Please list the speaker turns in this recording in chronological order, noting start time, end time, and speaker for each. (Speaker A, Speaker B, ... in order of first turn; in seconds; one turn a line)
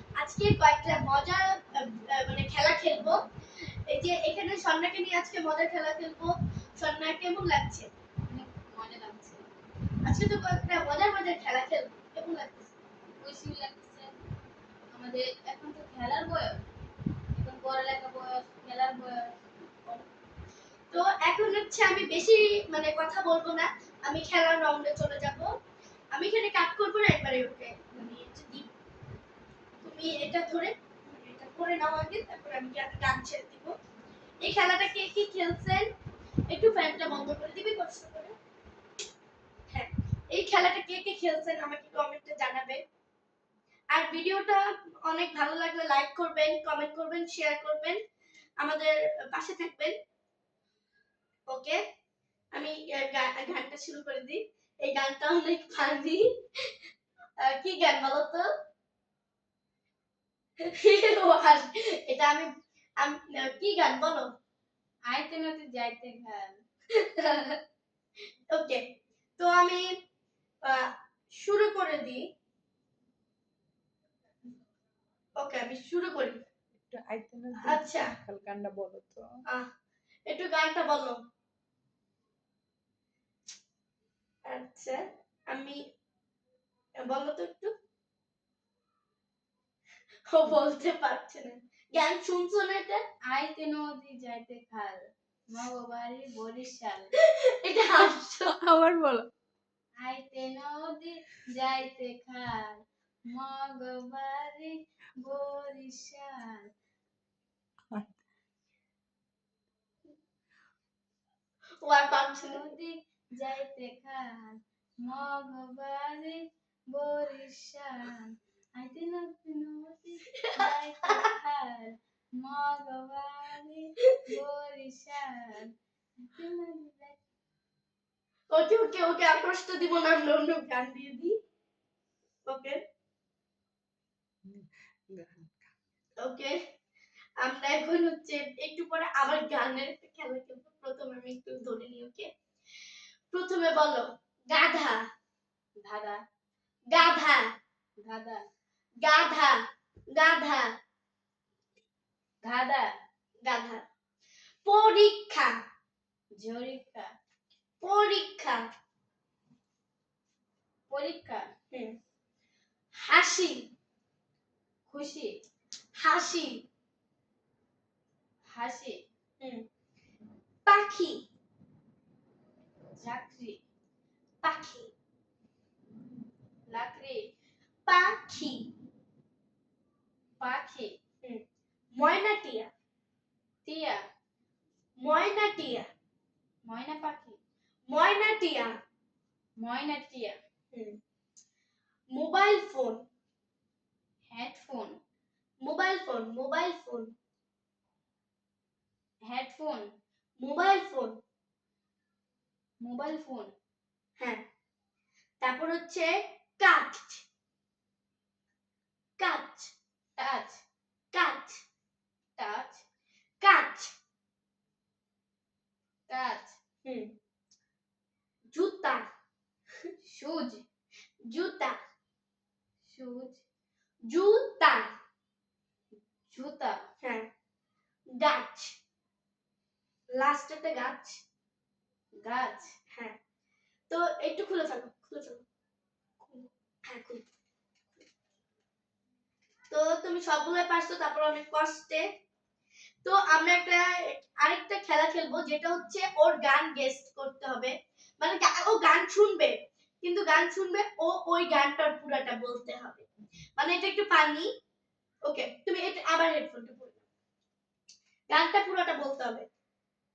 Speaker A: 0.1-3.2
Speaker A: 3.9-7.9
Speaker B: 8.3-9.5
Speaker A: 10.0-12.8
Speaker B: 13.2-14.2
Speaker B: 14.9-16.6
Speaker B: 17.3-19.3
Speaker A: 20.9-25.6
Speaker A: 26.1-28.7
Speaker A: 29.8-33.8
Speaker A: 34.4-35.9
Speaker A: 36.5-38.4
Speaker A: 39.7-42.8
Speaker A: 43.9-48.0
Speaker A: 48.6-50.0
Speaker A: 51.5-51.8
Speaker A: 52.5-56.3
Speaker A: 57.4-58.5
Speaker A: 60.7-64.3
Speaker B: 65.1-66.6
Speaker A: 67.0-67.5
Speaker A: 68.5-70.0
Speaker A: 70.6-72.3
Speaker A: 75.4-76.4
Speaker C: 76.8-79.3
Speaker A: 77.6-78.1
Speaker A: 80.3-81.2
Speaker A: 84.5-85.8
Speaker A: 87.0-87.7
Speaker A: 90.3-93.0
Speaker B: 93.3-97.1
Speaker A: 97.3-98.6
Speaker C: 98.6-99.3
Speaker B: 100.0-106.7
Speaker A: 111.8-112.6
Speaker B: 112.4-127.2
Speaker A: 120.4-121.2
Speaker A: 128.5-131.3
Speaker A: 132.4-132.8
Speaker C: 134.4-135.7
Speaker A: 136.2-136.6
Speaker A: 137.4-142.3
Speaker A: 143.3-145.0
Speaker B: 145.8-146.2
Speaker A: 146.9-147.5
Speaker B: 148.0-148.4
Speaker A: 149.0-149.6
Speaker A: 150.1-150.7
Speaker B: 152.4-152.9
Speaker A: 153.4-153.8
Speaker A: 154.6-155.6
Speaker B: 156.3-157.1
Speaker A: 157.8-158.6
Speaker B: 160.9-161.5
Speaker A: 161.7-162.0
Speaker A: 162.9-163.7
Speaker B: 164.9-165.4
Speaker A: 165.9-166.7
Speaker B: 168.5-169.0
Speaker A: 169.4-169.7
Speaker A: 170.7-171.3
Speaker B: 172.9-173.6
Speaker A: 174.4-174.9
Speaker B: 176.7-177.3
Speaker A: 177.8-178.7
Speaker B: 180.4-181.0
Speaker A: 181.2-182.7
Speaker B: 183.7-184.0
Speaker A: 185.0-185.9
Speaker B: 186.6-187.4
Speaker A: 187.9-188.8
Speaker B: 189.6-190.3
Speaker A: 190.7-191.0
Speaker A: 192.1-193.0
Speaker B: 194.3-195.0
Speaker A: 195.6-197.2
Speaker B: 199.2-199.9
Speaker A: 200.4-201.2
Speaker B: 202.8-203.5
Speaker A: 204.2-204.4
Speaker A: 205.4-207.2
Speaker A: 209.2-209.7
Speaker B: 210.2-210.6
Speaker A: 211.1-211.6
Speaker B: 212.4-212.8
Speaker A: 213.4-213.9
Speaker B: 216.1-216.6
Speaker A: 216.8-217.1
Speaker A: 218.5-219.1
Speaker B: 220.0-220.6
Speaker A: 221.3-221.8
Speaker B: 222.8-223.4
Speaker A: 224.1-224.9
Speaker B: 226.3-226.8
Speaker A: 227.0-227.3
Speaker A: 228.1-228.8
Speaker A: 230.1-231.2
Speaker B: 232.2-232.7
Speaker A: 233.9-235.4
Speaker A: 236.2-237.2
Speaker A: 239.7-242.0
Speaker A: 243.0-253.1
Speaker A: 253.6-254.5
Speaker A: 255.3-257.0
Speaker A: 258.3-259.4